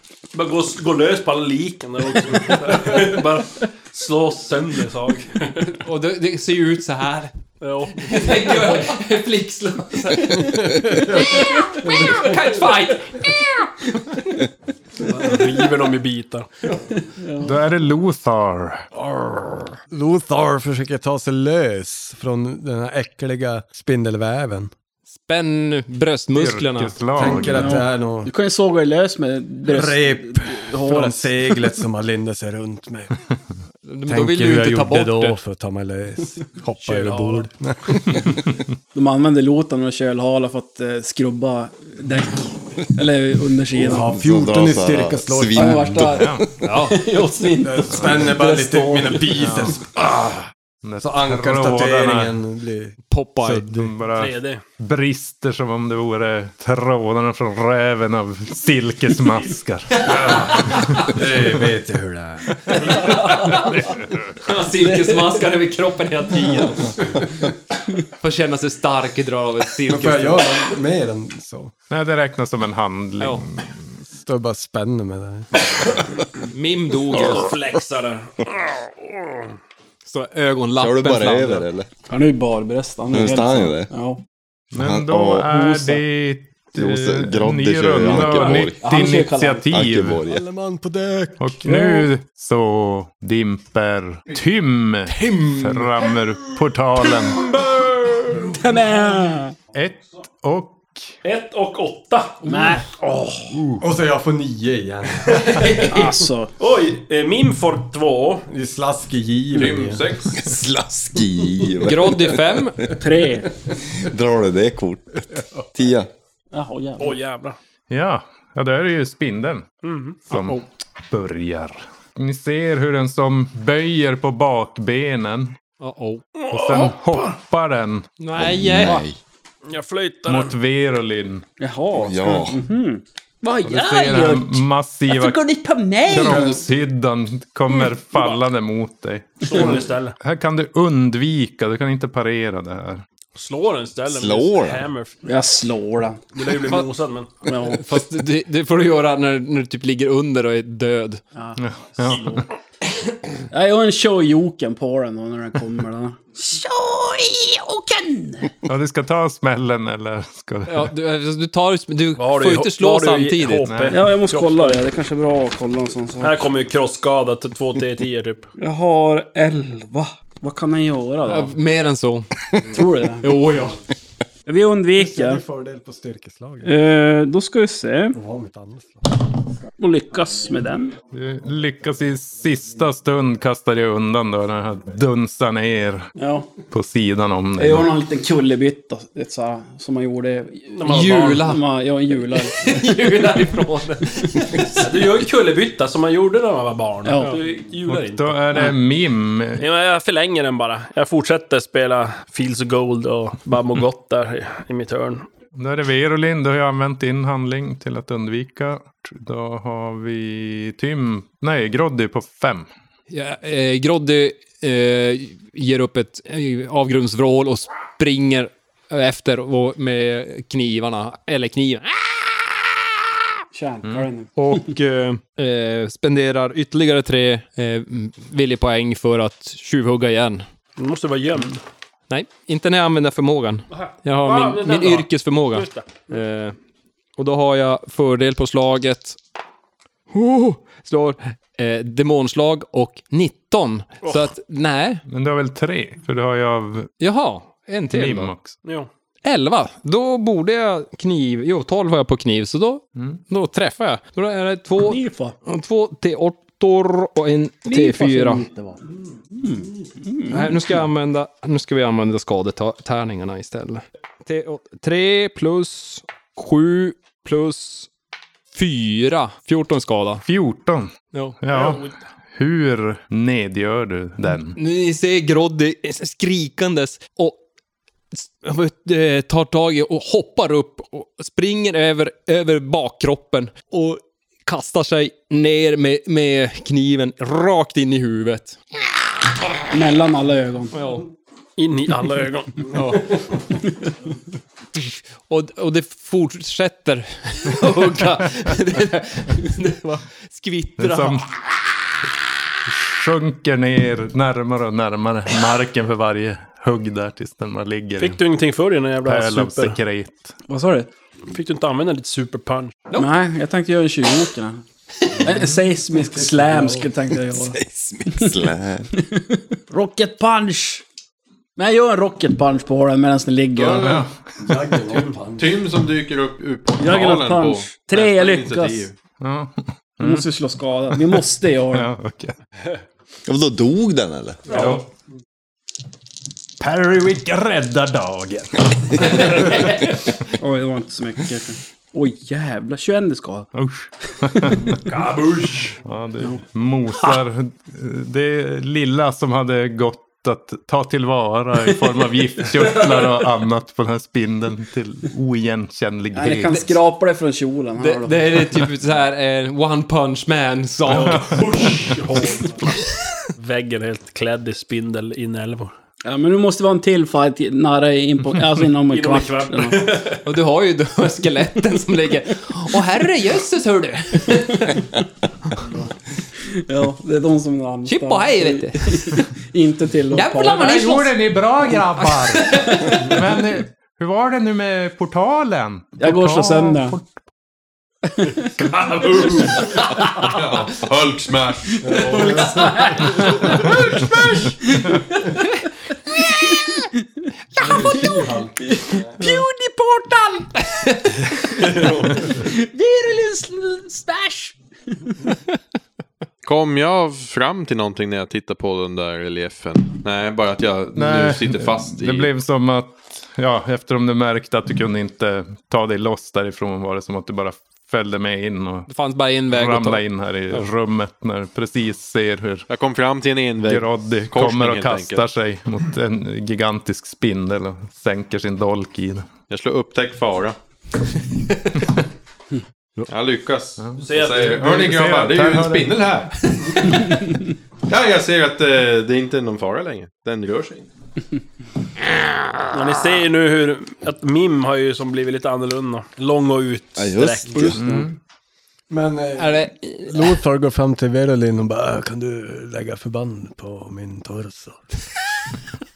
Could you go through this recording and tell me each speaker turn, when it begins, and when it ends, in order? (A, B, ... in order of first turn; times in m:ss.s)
0:00.3-0:05.8 A
0:05.8-0:07.3 B
0:07.6-0:08.9 A
0:07.9-0:13.7 B
0:10.4-0:12.6 C
0:15.0-0:16.5 A
0:15.1-0:15.4 B
0:17.0-0:17.5 D
0:17.4-0:18.9 E
0:19.9-0:24.7 C
0:25.1-0:27.0 B
0:26.3-0:27.8 E
0:27.1-0:28.3 C
0:27.6-0:31.3 D
0:29.6-0:33.1 C
0:33.8-0:35.4 B
0:34.1-0:38.4 C
0:36.8-0:37.5 A
0:38.9-0:44.1 D
0:43.7-0:46.0 C
0:44.1-0:46.3 F
0:45.5-0:49.6 D
0:46.0-0:46.4 E
0:46.6-0:47.0 B
0:47.6-0:50.4 C
0:49.4-0:49.8 E
0:50.8-0:52.3 E
0:51.0-0:53.9 C
0:53.1-0:53.7 B
0:53.7-1:01.4 E
0:54.1-0:54.6 A
1:00.2-1:02.8 C
1:02.9-1:03.8 B
1:04.4-1:07.2 B
1:04.9-1:05.2 D
1:06.9-1:07.3 C
1:08.0-1:10.6 B
1:09.9-1:11.7 C
1:11.9-1:13.8 E
1:14.1-1:16.0 C
1:16.5-1:17.5 B
1:17.1-1:19.5 A
1:20.0-1:21.7 B
1:20.8-1:21.9 F
1:22.1-1:24.2 D
1:23.1-1:23.9 F
1:24.7-1:30.2 E
1:24.8-1:25.6 F
1:25.5-1:26.0 D
1:26.7-1:28.8 F
1:28.1-1:29.7 D
1:29.7-1:30.4 F
1:30.2-1:31.5 C
1:31.4-1:37.5 E
1:31.6-1:32.1 D
1:35.2-1:35.8 C
1:37.3-1:38.6 A
1:38.5-1:39.5 D
1:39.7-1:41.1 E
1:41.2-1:42.7 A
1:42.4-1:43.3 D
1:43.8-1:45.8 C
1:45.6-1:46.0 B
1:45.9-1:46.5 D
1:46.6-1:48.5 A
1:48.5-1:50.0 C
1:49.5-1:50.4 G
1:50.3-1:52.6 F
1:51.8-1:52.8 B
1:52.9-1:53.5 D
1:54.0-1:56.1 F
1:56.5-1:57.2 D
1:57.0-1:57.6 A
1:57.9-1:59.7 E
1:59.8-2:00.2 A
2:00.3-2:05.6 E
2:00.3-2:00.6 B
2:05.8-2:06.2 B
2:06.4-2:07.3 A
2:06.5-2:08.1 E
2:08.2-2:09.0 B
2:08.3-2:09.2 F
2:09.6-2:10.6 A
2:10.2-2:11.4 E
2:11.6-2:16.4 D
2:12.0-2:12.6 F
2:13.6-2:15.5 E
2:16.0-2:23.0 E
2:17.7-2:18.4 A
2:19.4-2:20.2 A
2:23.4-2:25.1 A
2:24.1-2:24.9 F
2:25.2-2:26.2 D
2:26.3-2:27.3 A
2:27.4-2:27.8 D
2:27.7-2:31.2 B
2:31.6-2:32.4 E
2:32.0-2:32.4 A
2:33.5-2:38.5 D
2:38.6-2:40.9 E
2:40.7-2:43.7 B
2:42.2-2:44.8 A
2:43.6-2:44.0 E
2:43.9-2:46.5 D
2:46.2-2:48.5 A
2:48.6-2:51.5 D
2:51.2-2:52.4 B
2:52.7-2:53.3 D
2:53.2-2:53.8 B
2:54.4-2:55.4 D
2:54.9-2:56.7 C
2:56.6-2:58.2 D
2:58.1-2:59.0 C
2:59.8-3:00.9 D
3:01.1-3:06.1 E
3:06.2-3:06.5 D
3:06.7-3:07.9 E
3:07.6-3:12.9 D
3:10.7-3:11.5 A
3:10.8-3:11.6 B
3:12.4-3:14.9 B
3:14.8-3:18.7 A
3:17.0-3:17.4 D
3:17.9-3:19.6 E
3:19.6-3:25.3 A
3:25.5-3:32.7 E
3:33.1-3:42.6 B
3:43.5-3:44.7 D
3:44.4-3:50.4 B
3:50.8-3:51.6 A
3:52.1-3:56.6 B
3:53.7-3:56.2 A
3:57.2-3:59.2 B
4:00.1-4:05.0 B
4:04.0-4:04.3 A
4:05.1-4:06.9 E
4:07.0-4:08.3 B
4:07.9-4:08.6 E
4:08.6-4:08.9 A
4:09.2-4:18.4 B
4:14.8-4:15.4 D
4:17.6-4:18.8 D
4:19.3-4:20.8 D
4:20.3-4:27.9 B
4:28.5-4:30.2 B
4:30.2-4:34.6 E
4:31.1-4:31.4 B
4:31.5-4:31.9 A
4:34.5-4:37.4 B
4:38.1-4:48.6 B
4:49.7-4:50.7 D
4:50.7-4:51.1 B
4:51.6-4:53.2 A
4:52.7-4:53.1 B
4:54.8-5:01.3 B
5:00.8-5:01.3 E
5:02.7-5:08.2 E
5:08.0-5:09.8 A
5:09.0-5:10.3 E
5:10.5-5:10.9 D
5:11.3-5:12.9 A
5:12.9-5:14.6 D
5:15.2-5:17.6 D
5:15.2-5:15.6 E
5:15.9-5:16.9 C
5:17.4-5:18.9 F
5:19.1-5:20.8 D
5:21.6-5:24.0 D
5:23.6-5:24.0 G
5:23.8-5:24.6 E
5:24.4-5:25.6 C
5:25.4-5:29.0 G
5:26.8-5:28.9 D
5:29.2-5:30.2 E
5:30.0-5:31.9 D
5:31.0-5:32.4 E
5:33.2-5:34.7 F
5:34.5-5:34.8 E
5:34.5-5:34.8 A
5:36.6-5:39.8 E
5:40.4-5:43.5 D
5:43.5-5:45.0 E
5:44.8-5:45.8 A
5:45.8-5:56.8 E
5:56.1-5:58.6 D
5:57.8-6:01.3 B
6:00.9-6:02.7 A
6:00.9-6:01.9 E
6:03.4-6:05.7 A
6:06.0-6:09.8 D
6:08.9-6:10.2 A
6:10.2-6:14.9 B
6:16.5-6:20.7 D
6:17.8-6:19.2 B
6:20.1-6:21.2 B
6:20.4-6:27.1 E
6:22.0-6:23.1 B
6:26.0-6:27.0 D
6:28.2-6:28.5 D
6:28.9-6:29.4 G
6:29.1-6:29.7 A
6:29.2-6:30.0 D
6:30.2-6:32.2 G
6:31.8-6:33.6 C
6:31.9-6:35.4 D
6:36.2-6:36.8 D
6:37.6-6:39.1 C
6:37.6-6:40.6 D
6:41.6-6:44.5 D
6:41.8-6:42.1 A
6:46.4-6:52.3 G
6:50.9-6:58.9 E
6:58.9-7:00.7 B
6:59.5-7:02.7 E
7:02.7-7:05.2 G
7:03.6-7:09.3 E
7:09.5-7:10.6 G
7:13.1-7:16.3 G
7:13.8-7:16.0 E
7:14.0-7:14.8 A
7:17.8-7:20.9 G
7:22.7-7:28.0 A
7:27.0-7:27.8 F
7:27.5-7:27.9 C
7:27.7-7:28.1 E
7:28.9-7:34.8 C
7:29.4-7:30.3 B